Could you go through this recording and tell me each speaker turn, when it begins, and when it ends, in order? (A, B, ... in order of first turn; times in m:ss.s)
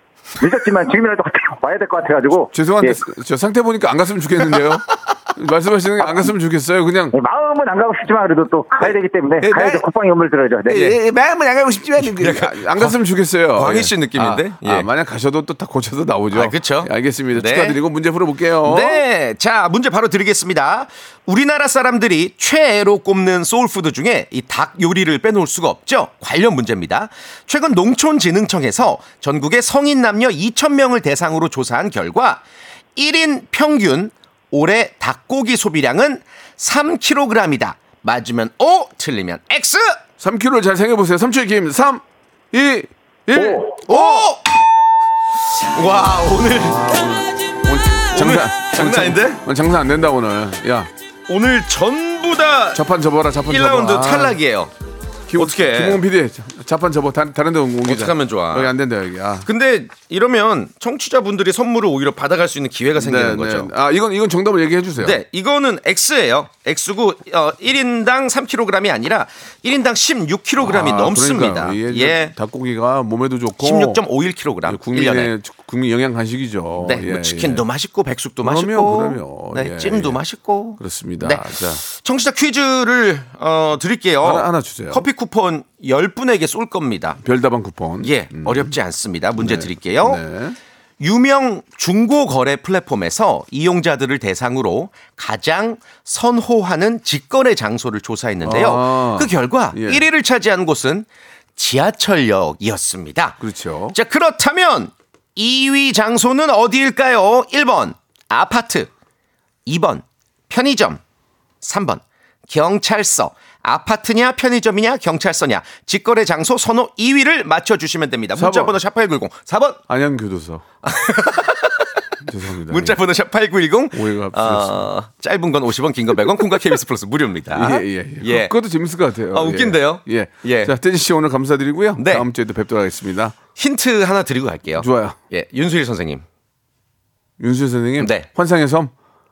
0:00.4-0:03.0 A
0:02.5-0:07.2 B
0:07.1-0:11.0 A
0:08.8-0:09.9 B
0:10.7-0:19.0 B
0:12.0-0:13.0 C
0:13.5-0:14.9 C
0:16.3-0:17.8 C
0:18.6-0:32.4 C
0:33.0-0:40.0 C
0:40.2-0:44.2 B
0:43.4-0:44.4 C
0:45.7-0:47.1 C
0:46.5-0:50.9 B
0:48.1-0:49.4 C
0:51.3-0:52.8 C
0:52.7-0:54.4 B
0:53.4-0:54.7 C
0:55.3-0:59.5 B
0:55.4-0:56.0 C
0:57.8-0:58.7 C
0:59.4-1:03.7 C
1:03.0-1:05.2 B
1:05.0-1:12.3 C
1:10.6-1:14.0 B
1:13.6-1:15.3 C
1:14.6-1:17.6 B
1:16.8-1:27.2 C
1:18.4-1:20.2 B
1:20.8-1:21.8 B
1:24.2-1:25.1 B
1:27.2-1:28.8 B
1:28.0-1:30.2 C
1:29.4-1:30.6 B
1:31.0-1:43.4 C
1:38.4-1:40.0 B
1:43.4-1:44.0 B
1:43.9-1:48.9 C
1:49.6-1:51.0 C
1:51.6-1:59.8 C
1:58.4-1:58.8 B
1:59.9-2:00.6 B
2:00.8-2:02.0 C
2:02.2-2:03.0 B
2:02.7-2:08.5 C
2:03.9-2:04.8 B
2:07.5-2:13.4 B
2:09.3-2:10.7 C
2:12.0-2:12.3 C
2:13.6-2:16.2 C
2:14.8-2:15.2 B
2:17.4-2:18.9 B
2:18.0-2:18.3 C